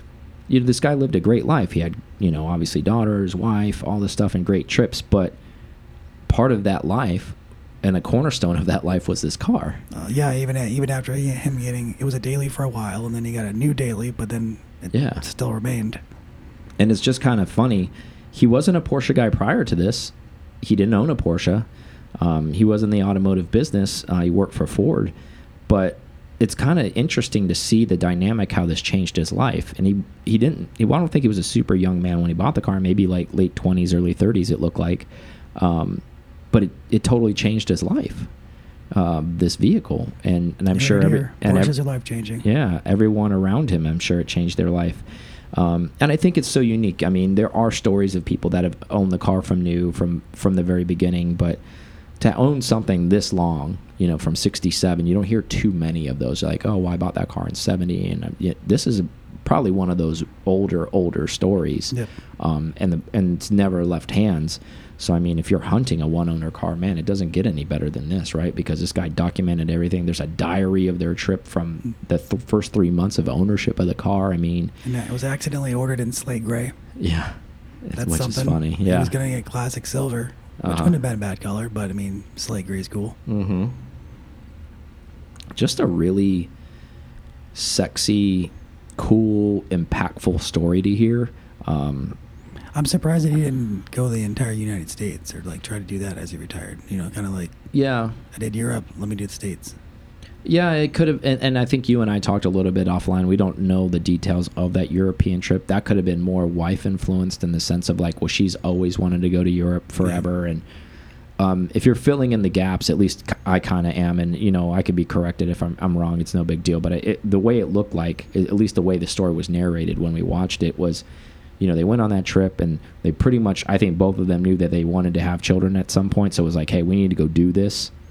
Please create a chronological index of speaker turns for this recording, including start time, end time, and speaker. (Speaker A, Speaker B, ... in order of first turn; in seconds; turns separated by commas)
Speaker A: 0.5-5.4, Speaker A: 6.3-9.8, Speaker B: 9.9-16.0, Speaker A: 14.9-15.2, Speaker A: 16.8-21.7, Speaker A: 22.2-25.1, Speaker A: 25.7-38.3, Speaker A: 38.9-41.7, Speaker B: 40.7-42.4, Speaker A: 42.4-51.6, Speaker A: 52.2-74.7, Speaker B: 74.8-76.7, Speaker A: 77.0-79.1, Speaker B: 78.0-83.2, Speaker A: 80.6-81.0, Speaker A: 83.3-83.8, Speaker A: 85.5-86.5, Speaker A: 87.5-92.2, Speaker B: 92.7-97.5, Speaker A: 97.7-98.2, Speaker B: 98.3-99.8, Speaker A: 100.4-110.6, Speaker A: 111.4-121.0, Speaker A: 121.6-127.9